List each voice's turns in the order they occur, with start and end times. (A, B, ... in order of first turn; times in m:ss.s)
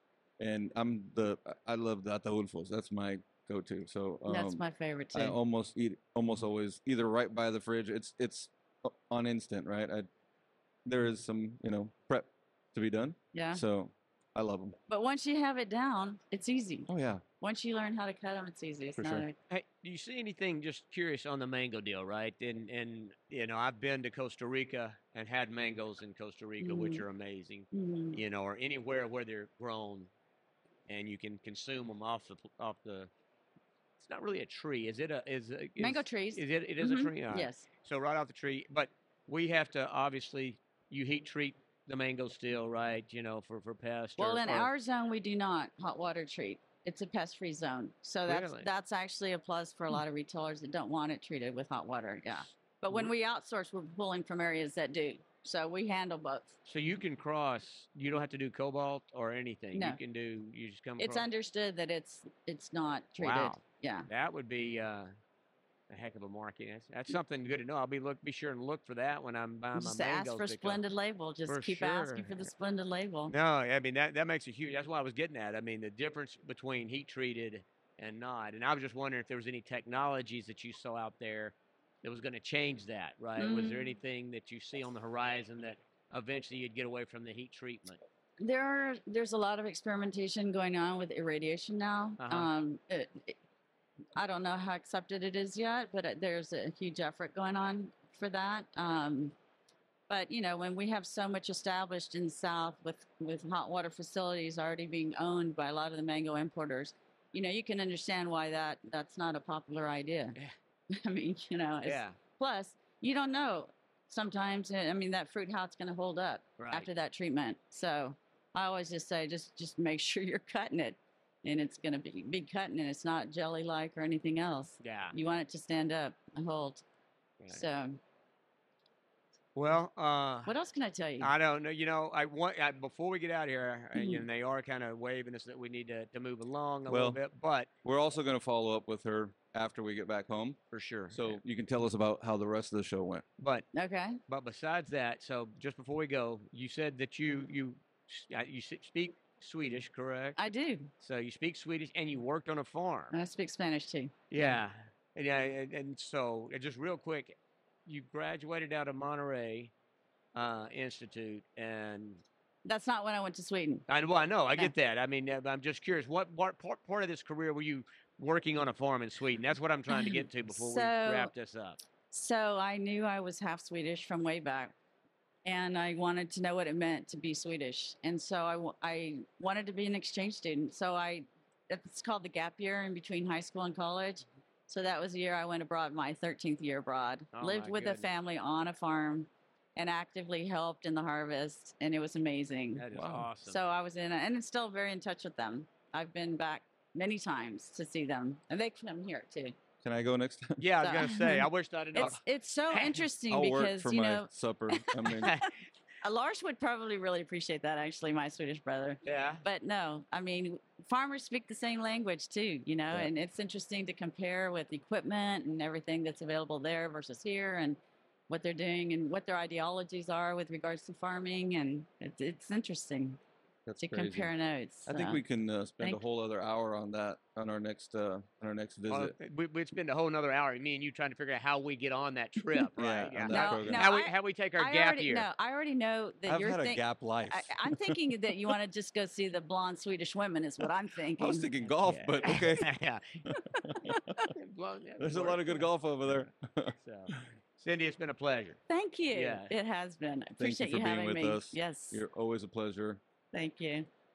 0:00.4-0:04.6 A
0:04.3-0:05.4 B
0:05.1-0:10.1 A
0:10.8-0:14.7 A
0:13.3-0:13.6 B
0:14.9-0:16.9 B
0:16.9-0:17.2 A
0:17.4-0:19.4 B
0:19.0-0:19.2 A
0:19.5-0:30.1 C
0:26.6-0:27.0 B
0:27.7-0:28.2 B
0:30.9-0:33.1 C
0:34.0-0:44.7 C
0:35.8-0:37.7 B
0:44.2-0:56.6 B
0:48.2-0:48.7 C
0:56.6-1:01.2 C
0:59.7-1:00.0 B
1:01.0-1:04.1 B
1:03.2-1:05.1 C
1:05.9-1:10.8 C
1:09.7-1:13.3 B
1:11.5-1:12.5 C
1:13.3-1:28.0 C
1:23.4-1:23.9 B
1:28.4-1:33.4 B
1:32.2-1:32.5 C
1:34.2-1:39.3 B
1:40.1-1:50.4 B
1:50.9-2:06.8 B
1:51.8-1:52.2 C
1:56.6-1:56.9 C
2:04.8-2:05.1 C
2:07.4-2:07.6 C
2:07.5-2:08.0 B
2:09.5-2:10.5 C
2:10.4-2:11.3 B
2:11.2-2:17.7 C
2:13.9-2:14.2 B
2:16.9-2:17.2 A
2:17.8-2:20.6 A
2:20.7-2:21.4 C
2:21.1-2:23.2 A
2:23.4-2:23.6 C
2:23.7-2:24.2 B
2:24.3-2:30.4 C
2:30.4-2:30.9 B
2:31.0-2:33.2 C
2:33.1-2:34.5 B
2:34.3-2:39.7 C
2:40.3-2:42.2 C
2:42.6-2:43.9 B
2:43.9-2:51.8 C
2:49.9-2:51.3 B
2:52.1-2:54.7 B
2:55.4-3:12.8 B
3:07.3-3:08.1 C
3:12.8-3:13.6 C
3:12.9-3:13.3 A
3:13.4-3:19.6 B
3:19.8-3:20.6 A
3:20.6-3:22.2 C
3:20.8-3:25.4 B
3:22.7-3:23.0 C
3:23.3-3:25.3 A
3:26.0-3:43.2 B
3:29.0-3:29.4 C
3:43.6-3:44.3 A
3:43.8-3:45.2 B
3:44.8-3:49.1 A
3:48.9-3:55.3 C
3:52.8-3:53.9 A
3:53.3-4:01.5 B
3:56.2-3:58.4 A
4:01.2-4:02.7 A
4:01.7-4:03.2 C
4:03.2-4:04.3 A
4:03.5-4:04.0 B
4:04.3-4:05.7 C
4:05.0-4:07.3 A
4:06.8-4:08.6 C
4:08.7-4:12.0 B
4:09.1-4:09.5 C
4:10.4-4:13.0 A
4:13.3-4:13.9 B